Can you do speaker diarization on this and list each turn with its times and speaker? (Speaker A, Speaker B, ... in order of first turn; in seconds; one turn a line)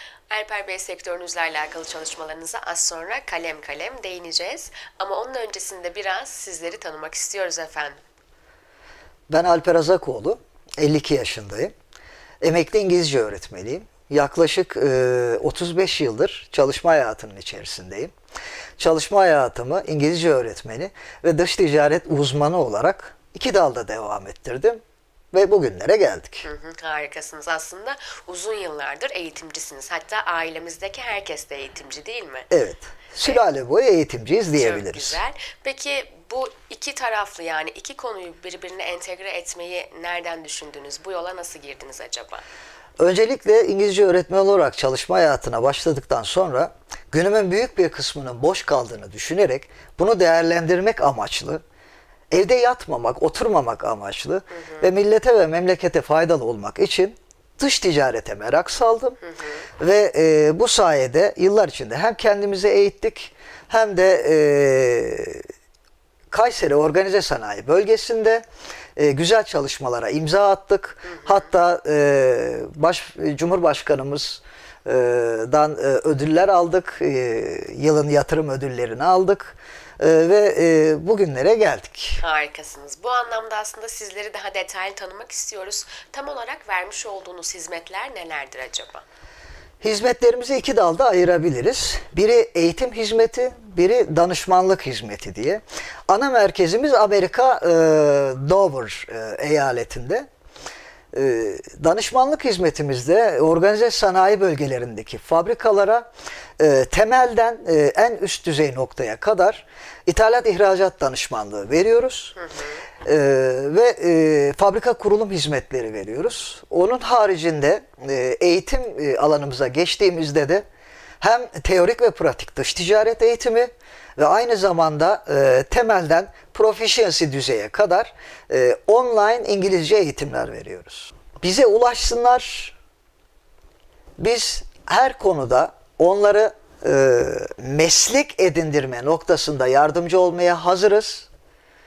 Speaker A: 0.3-8.0
Speaker B: 9.3-11.7
Speaker B: 12.4-18.1
Speaker B: 18.8-24.8
Speaker B: 25.3-26.5
Speaker A: 26.4-32.5
Speaker B: 32.5-35.2
Speaker A: 34.5-42.4
Speaker B: 43.0-51.6
Speaker B: 52.3-59.2
Speaker A: 54.5-54.9
Speaker A: 59.3-59.6
Speaker B: 59.8-65.5
Speaker B: 66.3-68.4
Speaker B: 69.0-82.2
Speaker A: 82.2-89.0
Speaker B: 89.8-100.3
Speaker B: 101.1-106.1
Speaker B: 106.6-112.3
Speaker A: 112.4-112.8
Speaker B: 113.0-120.7
Speaker B: 121.2-132.8
Speaker B: 134.2-141.3